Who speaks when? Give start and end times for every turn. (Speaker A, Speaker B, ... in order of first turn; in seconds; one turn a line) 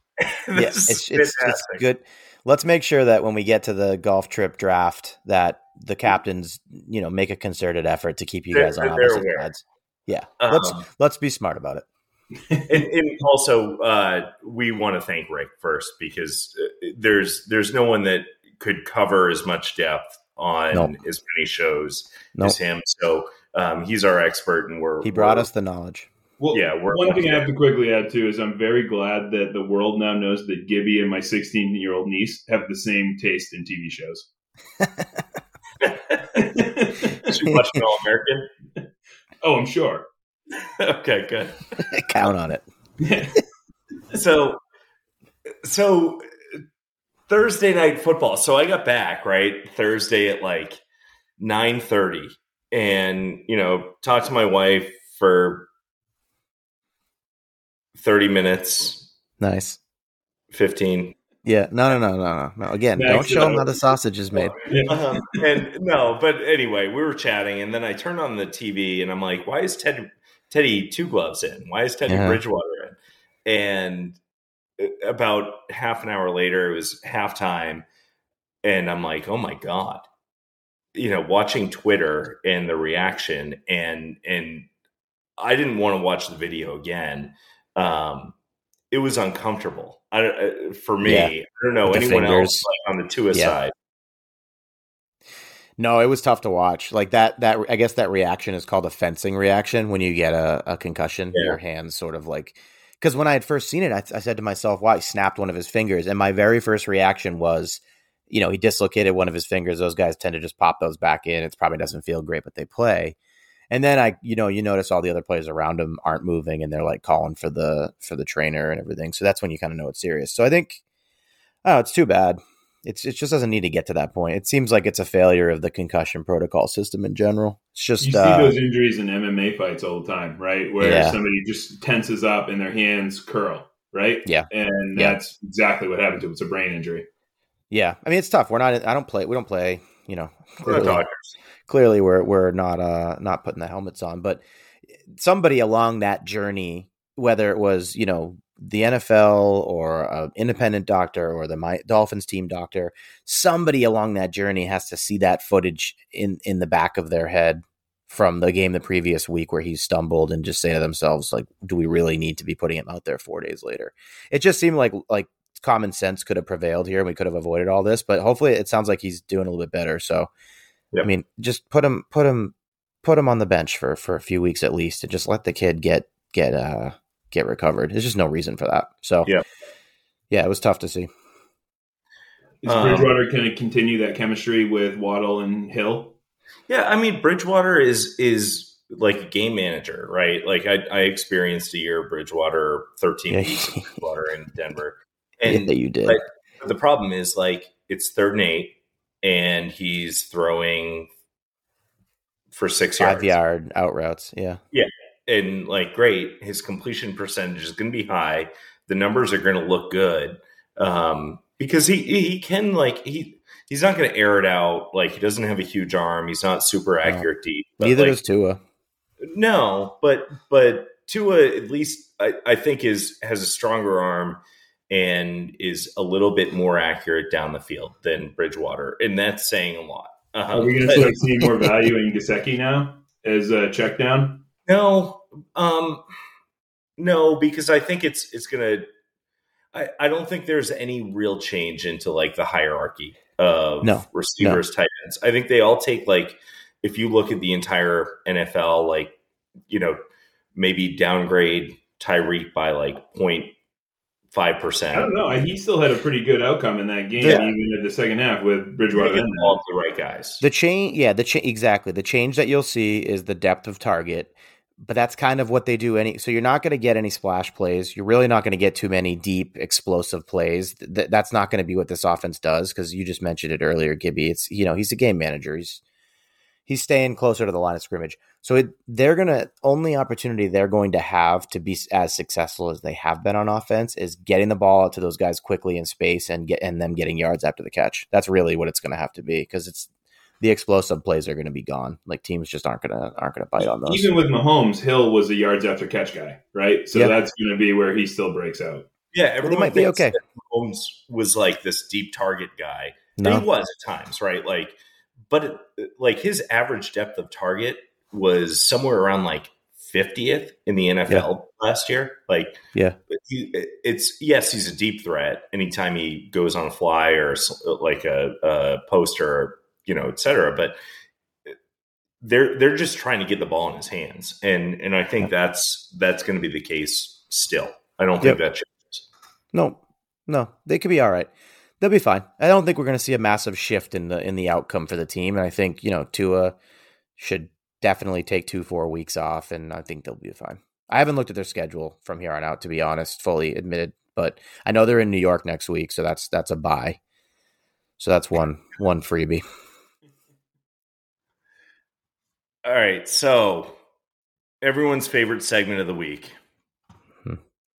Speaker A: 0.2-1.8
Speaker B: 0.5-11.8
Speaker A: 8.5-9.5
Speaker A: 10.4-10.8
Speaker A: 12.7-25.5
Speaker B: 25.0-26.1
Speaker C: 26.4-34.3
Speaker A: 26.5-27.5
Speaker B: 34.8-35.2
Speaker A: 35.8-38.5
Speaker C: 36.4-37.2
Speaker C: 39.4-40.1
Speaker A: 40.5-41.7
Speaker B: 41.8-42.6
Speaker C: 43.0-43.4
Speaker A: 44.1-44.6
Speaker A: 45.6-46.2
Speaker A: 47.3-50.8
Speaker A: 51.4-55.7
Speaker A: 58.0-59.1
Speaker B: 59.4-59.8
Speaker A: 60.5-61.1
Speaker B: 61.4-64.5
Speaker C: 63.0-63.9
Speaker A: 64.3-74.2
Speaker C: 64.7-65.3
Speaker B: 72.1-72.4
Speaker A: 74.8-77.8
Speaker A: 78.6-80.0
Speaker A: 80.9-84.7
Speaker A: 85.4-88.3
Speaker A: 88.9-93.7
Speaker B: 91.0-91.3
Speaker B: 91.8-92.7
Speaker B: 95.8-113.2
Speaker B: 113.7-120.8
Speaker B: 121.6-128.5
Speaker C: 128.0-137.1
Speaker B: 130.8-131.2
Speaker B: 134.2-135.2
Speaker B: 137.7-141.0
Speaker A: 140.6-141.3
Speaker B: 141.7-170.3
Speaker B: 171.0-179.3
Speaker B: 180.3-181.1
Speaker C: 182.6-186.1
Speaker A: 182.7-183.1
Speaker A: 186.7-201.1
Speaker B: 193.3-193.9
Speaker B: 195.5-196.2
Speaker A: 202.5-203.4
Speaker B: 203.0-204.6
Speaker A: 204.7-218.2
Speaker B: 217.8-218.6
Speaker A: 219.2-231.2
Speaker C: 230.5-234.4
Speaker A: 234.7-236.0
Speaker A: 237.0-238.8
Speaker A: 239.7-249.2
Speaker B: 243.8-244.6
Speaker A: 249.7-250.0
Speaker A: 250.5-253.5
Speaker A: 254.3-255.3
Speaker C: 254.9-259.6
Speaker B: 257.2-257.5
Speaker A: 258.9-260.4
Speaker B: 260.4-275.8
Speaker B: 276.7-289.9
Speaker B: 290.4-294.1
Speaker C: 293.7-298.9
Speaker A: 299.1-320.8
Speaker B: 299.4-300.1
Speaker B: 303.2-303.4
Speaker A: 322.2-329.0
Speaker B: 329.5-336.6
Speaker B: 337.2-347.0
Speaker B: 348.0-349.4
Speaker A: 352.6-353.8
Speaker A: 354.6-356.3